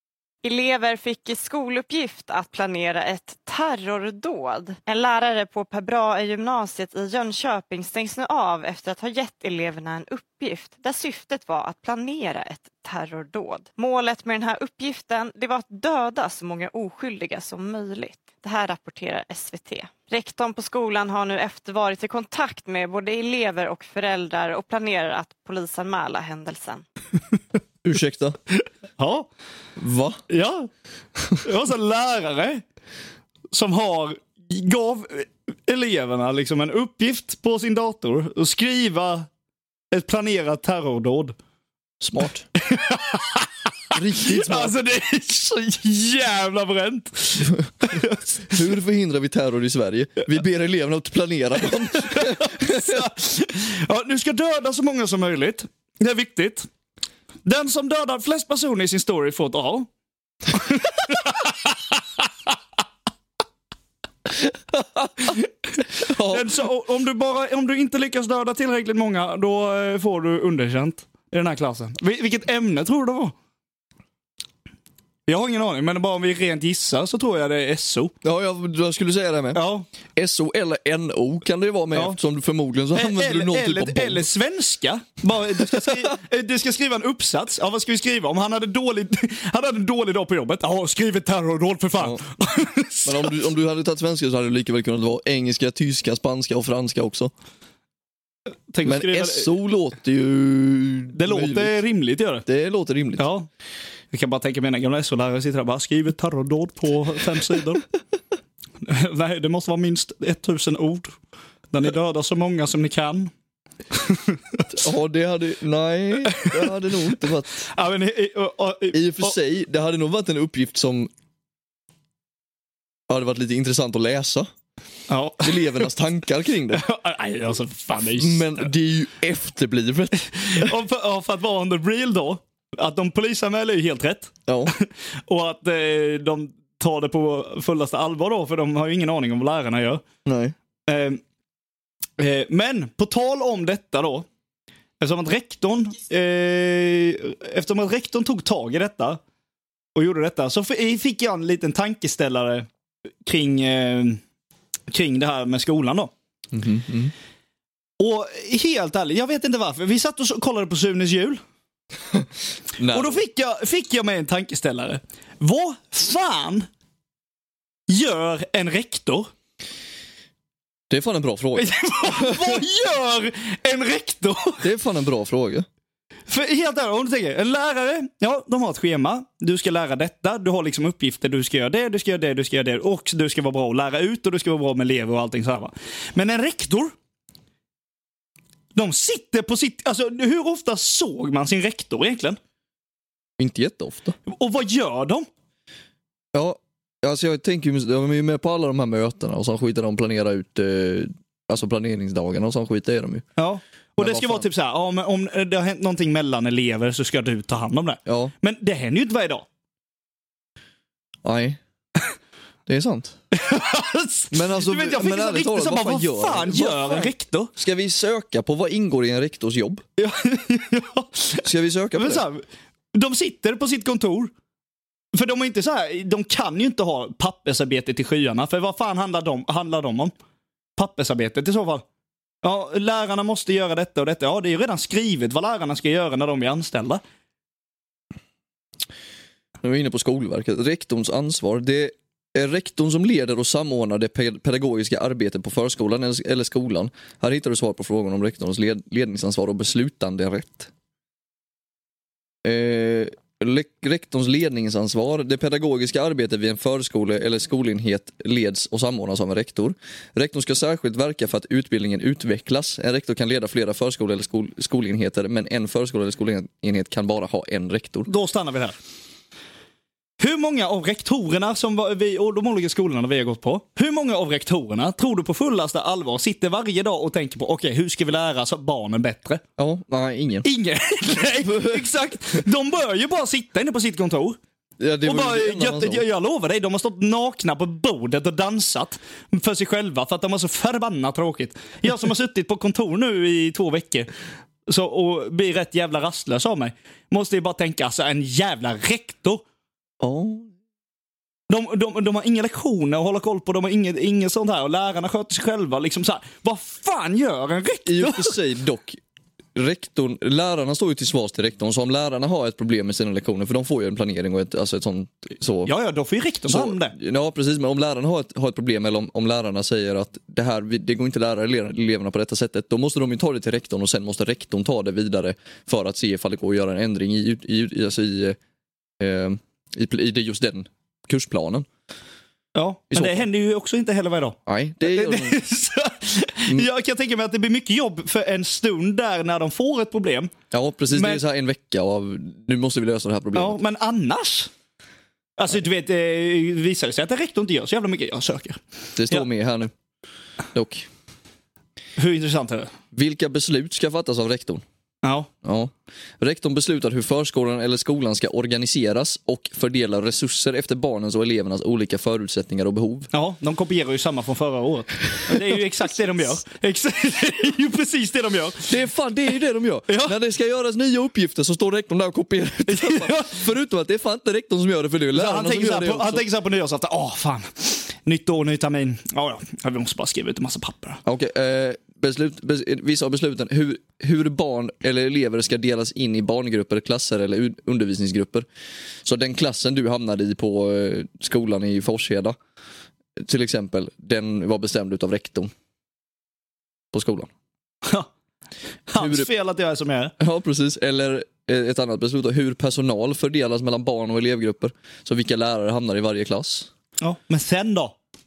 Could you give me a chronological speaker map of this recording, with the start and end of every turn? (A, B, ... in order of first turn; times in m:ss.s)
0:00.4-0:26.8 A
0:27.8-0:28.4 B
0:29.0-0:29.3 C
0:29.8-0:30.2 B
0:30.3-0:30.7 C
0:31.4-0:32.6 C
0:33.5-0:39.3 C
0:39.9-0:41.4 C
0:42.0-0:42.5 B
0:42.7-0:48.5 C
0:43.9-0:44.8 B
0:48.5-0:53.1 B
0:52.0-0:56.7 C
0:57.4-0:59.9 C
1:00.5-1:01.7 C
1:04.4-1:05.3 B
1:05.2-1:13.4 C
1:06.0-1:06.6 B
1:15.3-1:18.1 C
1:18.2-1:24.3 B
1:19.5-1:19.9 C
1:21.9-1:22.2 C
1:22.9-1:33.4 C
1:25.7-1:26.0 B
1:33.1-1:37.3 B
1:38.7-1:39.5 C
1:38.8-1:41.8 B
1:41.1-1:42.4 C
1:42.4-1:43.3 B
1:43.2-1:43.5 C
1:44.1-1:47.8 C
1:48.8-1:51.2 C
1:51.7-1:53.3 C
1:53.9-1:54.6 C
1:54.7-1:57.7 B
1:56.3-1:56.7 C
1:57.7-1:59.4 C
1:58.9-2:01.1 B
2:03.1-2:04.5 B
2:05.1-2:05.9 C
2:05.4-2:06.8 B
2:06.7-2:08.7 C
2:08.2-2:10.7 B
2:10.2-2:20.0 C
2:14.5-2:14.7 B
2:20.2-2:20.6 B
2:20.9-2:21.2 C
2:22.2-2:24.3 C
2:25.0-2:29.2 C
2:30.0-2:32.7 C
2:33.2-2:34.2 C
2:34.9-2:36.1 C
2:36.5-2:37.1 B
2:38.0-2:41.4 C
2:42.8-2:43.2 B
2:42.9-2:46.7 C
2:47.9-2:49.3 C
2:50.9-2:52.6 B
2:51.6-2:54.6 C
2:54.6-2:55.7 B
2:56.3-3:06.9 C
3:08.8-3:12.4 C
3:13.4-3:14.2 B
3:14.3-3:15.3 C
3:16.3-3:23.3 B
3:23.4-3:29.5 C
3:24.0-3:24.5 B
3:28.1-3:28.3 B
3:31.2-3:31.6 B
3:32.7-3:33.2 B
3:33.3-3:37.5 C
3:34.3-3:39.8 B
3:40.0-3:44.3 C
3:41.4-3:42.3 B
3:45.1-3:50.1 C
3:50.8-3:51.8 C
3:52.4-3:57.0 C
3:59.6-4:10.7 B
4:12.4-4:28.1 B
4:28.1-4:28.8 C
4:30.2-4:39.4 C
4:39.6-4:40.5 B
4:40.4-4:44.4 C
4:41.4-4:41.9 B
4:44.8-4:46.0 B
4:45.0-4:54.1 C
4:54.7-4:59.4 C
5:00.0-5:00.5 B
5:01.5-5:08.4 C
5:07.9-5:09.0 B
5:09.6-5:15.7 B
5:15.7-5:17.0 C
5:16.5-5:28.4 B
5:29.0-5:31.7 B
5:32.6-5:40.3 C
5:32.9-5:33.3 B
5:34.5-5:35.4 B
5:40.5-5:43.6 B
5:40.9-5:41.2 C
5:43.3-5:44.5 C
5:45.4-5:49.3 C
5:49.0-5:49.7 B
5:50.5-5:50.9 B
5:52.0-5:52.7 C
5:52.9-5:54.6 B
5:55.0-5:55.3 C
5:55.4-6:03.1 B
6:03.1-6:08.8 C
6:08.7-6:16.3 B
6:09.9-6:10.1 C
6:12.7-6:13.4 C
6:15.1-6:21.0 C
6:21.0-6:28.5 B
6:29.0-6:32.4 B
6:33.2-6:35.5 B
6:36.9-6:37.3 B
6:37.8-6:38.1 C
6:38.9-6:40.2 C
6:39.0-6:39.3 B
6:40.2-6:46.7 B
6:47.0-6:48.0 C